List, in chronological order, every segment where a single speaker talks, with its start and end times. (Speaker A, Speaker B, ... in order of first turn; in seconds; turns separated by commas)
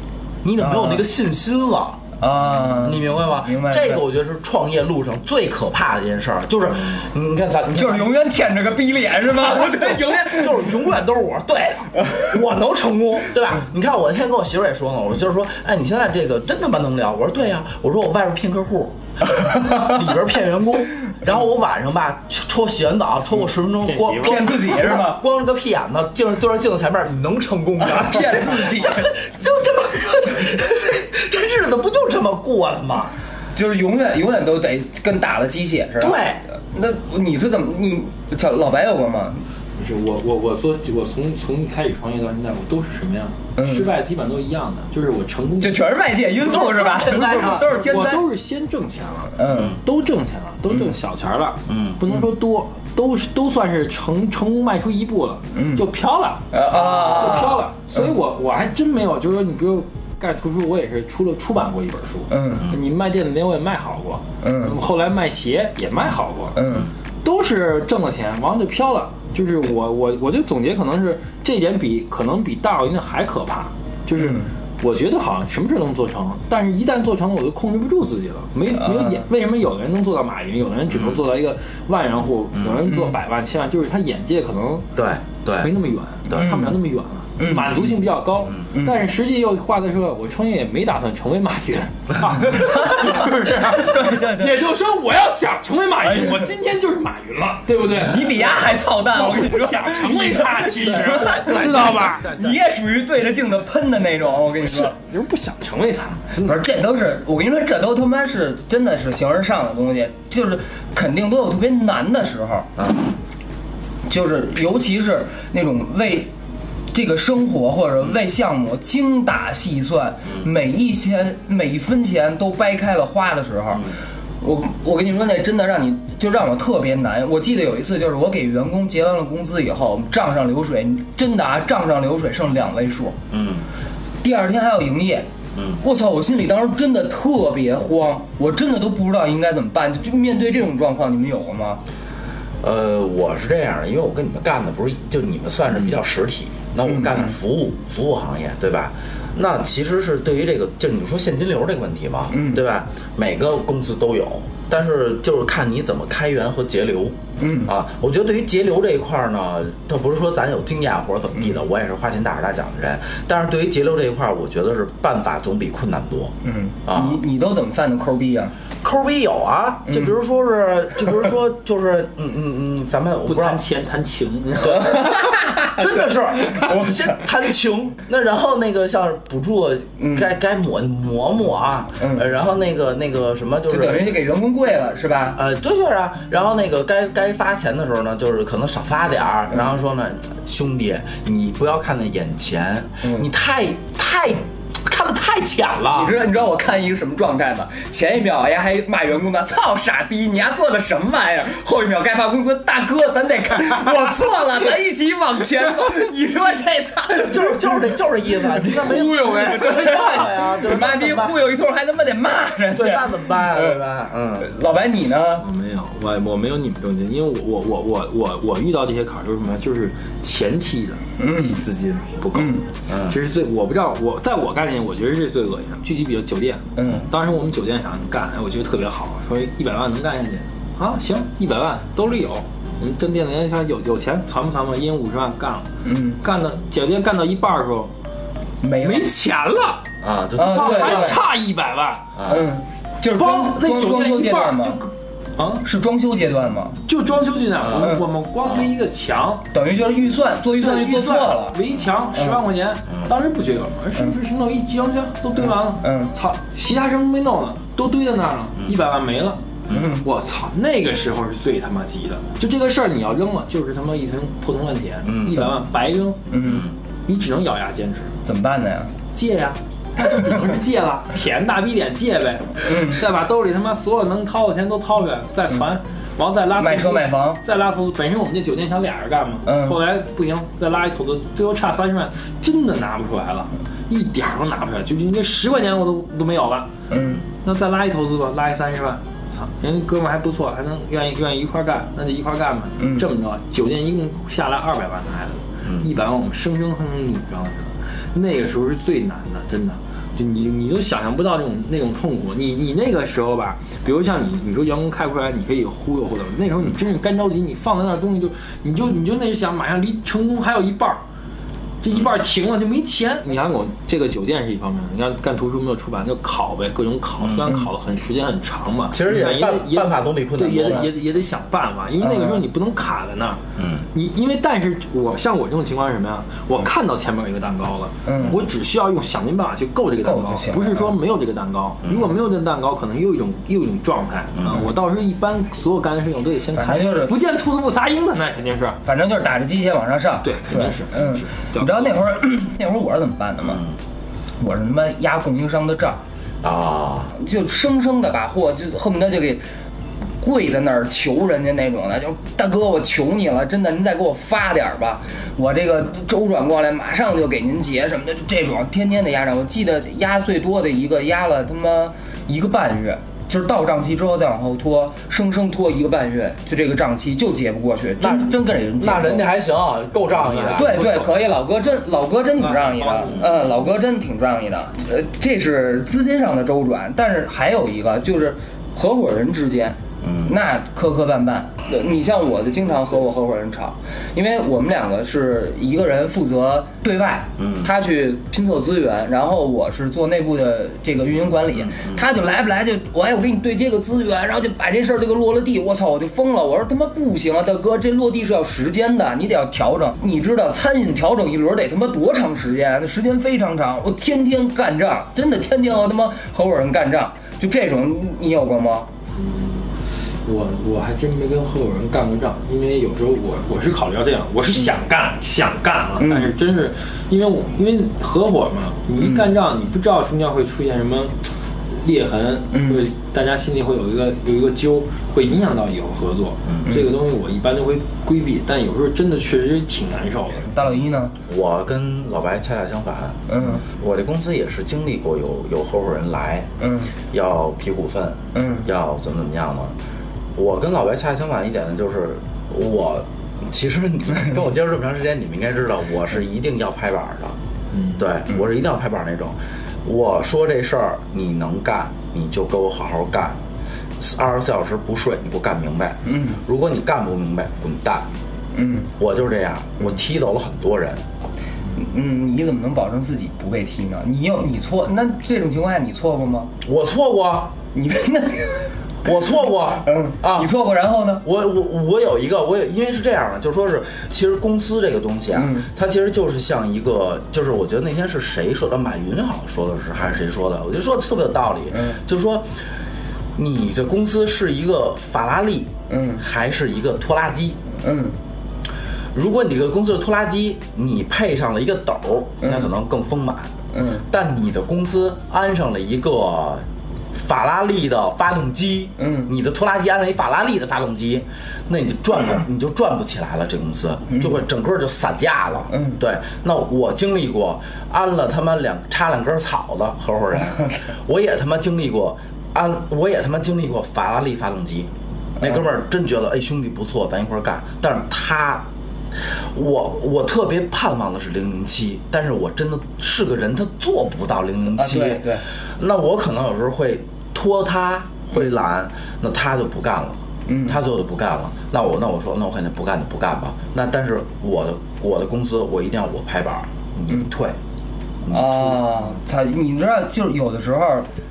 Speaker A: 0.4-2.0, Speaker B: 0.6-1.1, Speaker B: 2.2-4.0, Speaker A: 2.6-8.2, Speaker B: 7.7-10.7, Speaker A: 9.4-33.2, Speaker B: 19.4-19.9, Speaker C: 23.8-24.8, Speaker B: 24.2-25.2, Speaker B: 27.8-29.1, Speaker B: 33.5-39.4, Speaker A: 36.0-36.4, Speaker C: 39.8-45.9, Speaker B: 43.6-43.9, Speaker B: 45.6-48.3, Speaker A: 46.4-47.8, Speaker C: 47.3-66.6, Speaker B: 49.4-49.8, Speaker A: 49.5-49.8, Speaker B: 50.7-51.0, Speaker A: 51.7-52.0, Speaker B: 55.5-55.9, Speaker B: 56.5-57.7, Speaker B: 62.3-62.7, Speaker B: 64.4-64.8, Speaker B: 66.6-66.9, Speaker C: 67.2-84.9, Speaker B: 74.2-74.5, Speaker B: 78.8-79.3, Speaker A: 80.9-81.2, Speaker B: 82.9-83.2, Speaker A: 85.0-85.7, Speaker C: 85.6-102.5, Speaker B: 86.3-86.8, Speaker B: 87.4-88.0, Speaker B: 88.7-89.0, Speaker B: 92.5-94.7, Speaker B: 96.0-96.5, Speaker B: 97.9-104.9, Speaker C: 104.6-106.7, Speaker B: 106.5-112.7, Speaker A: 112.8-113.1, Speaker B: 114.1-116.3, Speaker B: 116.9-133.2, Speaker A: 133.3-133.7, Speaker B: 134.2-135.3, Speaker A: 135.6-135.8, Speaker B: 135.8-141.8, Speaker A: 142.6-166.3, Speaker B: 146.8-147.3, Speaker B: 152.3-152.6, Speaker B: 157.4-157.7, Speaker B: 166.4-168.5, Speaker A: 166.9-167.2, Speaker A: 168.8-173.6, Speaker B: 169.9-170.2, Speaker C: 173.3-175.7, Speaker A: 174.6-184.2, Speaker B: 175.2-175.8, Speaker B: 176.5-177.3, Speaker B: 180.0-180.3, Speaker B: 182.0-182.3, Speaker B: 183.7-185.4, Speaker A: 185.4-196.2, Speaker B: 195.9-207.8, Speaker A: 207.1-211.4, Speaker C: 208.6-210.3, Speaker B: 208.9-213.8, Speaker A: 212.7-214.5, Speaker B: 214.4-215.4, Speaker C: 215.4-237.9, Speaker B: 221.2-221.6, Speaker B: 222.3-222.7, Speaker A: 222.9-223.2, Speaker B: 226.8-227.1, Speaker B: 235.8-236.2, Speaker B: 238.6-239.1, Speaker C: 238.7-239.9, Speaker A: 240.0-241.2, Speaker B: 240.4-241.2, Speaker C: 240.4-242.2, Speaker A: 242.2-242.5, Speaker B: 242.2-244.8, Speaker C: 243.1-245.7, Speaker B: 245.6-246.8, Speaker C: 246.9-249.5, Speaker B: 247.7-248.1, Speaker B: 249.5-251.6, Speaker C: 250.6-266.3, Speaker B: 252.2-252.4, Speaker B: 255.4-256.1, Speaker B: 259.7-260.1, Speaker A: 265.1-265.5, Speaker B: 266.3-266.7, Speaker A: 266.4-266.7, Speaker C: 267.1-268.2, Speaker B: 268.2-268.9, Speaker C: 269.1-286.7, Speaker B: 272.6-273.0, Speaker B: 276.6-277.4, Speaker B: 279.5-279.8, Speaker B: 286.9-287.2, Speaker C: 287.3-311.0, Speaker B: 292.8-293.1, Speaker C: 311.8-338.8, Speaker A: 317.2-317.5, Speaker A: 318.9-320.9, Speaker B: 322.0-322.5, Speaker A: 323.6-323.9, Speaker B: 328.1-328.4, Speaker B: 330.0-330.9, Speaker A: 331.9-332.1, Speaker A: 334.4-334.6, Speaker B: 336.6-337.1, Speaker B: 338.9-343.6, Speaker C: 340.2-342.0, Speaker A: 343.5-343.7, Speaker B: 344.4-346.0, Speaker A: 346.4-347.1, Speaker B: 347.2-349.4, Speaker B: 350.2-369.3, Speaker A: 368.0-370.8, Speaker C: 370.2-371.2, Speaker B: 370.6-408.9, Speaker C: 372.4-373.4, Speaker A: 380.0-380.4, Speaker A: 387.4-387.7, Speaker A: 391.5-392.0, Speaker C: 409.1-430.6, Speaker B: 416.0-416.3, Speaker B: 419.0-419.3, Speaker B: 422.5-422.9, Speaker B: 430.5-431.1, Speaker A: 431.3-436.5, Speaker B: 433.3-433.6, Speaker B: 436.6-436.9, Speaker A: 437.0-439.8, Speaker B: 438.4-438.7, Speaker A: 440.4-447.4, Speaker C: 447.7-448.0, Speaker A: 448.0-453.4, Speaker A: 454.0-458.1, Speaker B: 456.1-456.4, Speaker B: 458.5-458.9, Speaker A: 459.0-461.0, Speaker B: 461.8-466.5, Speaker A: 466.6-467.6, Speaker B: 467.7-468.8, Speaker A: 469.0-470.5, Speaker B: 469.9-471.2, Speaker A: 471.2-482.6, Speaker B: 475.3-475.7, Speaker B: 481.7-482.0, Speaker A: 483.4-487.6, Speaker B: 485.9-486.2, Speaker B: 487.8-488.2, Speaker A: 489.1-493.5, Speaker B: 492.4-492.7, Speaker B: 493.7-494.0, Speaker A: 494.1-518.7, Speaker B: 499.0-499.3, Speaker B: 504.1-504.4, Speaker B: 505.7-506.0, Speaker A: 519.3-537.6, Speaker B: 524.8-525.4, Speaker B: 530.5-530.8, Speaker A: 538.2-538.9, Speaker B: 538.3-541.1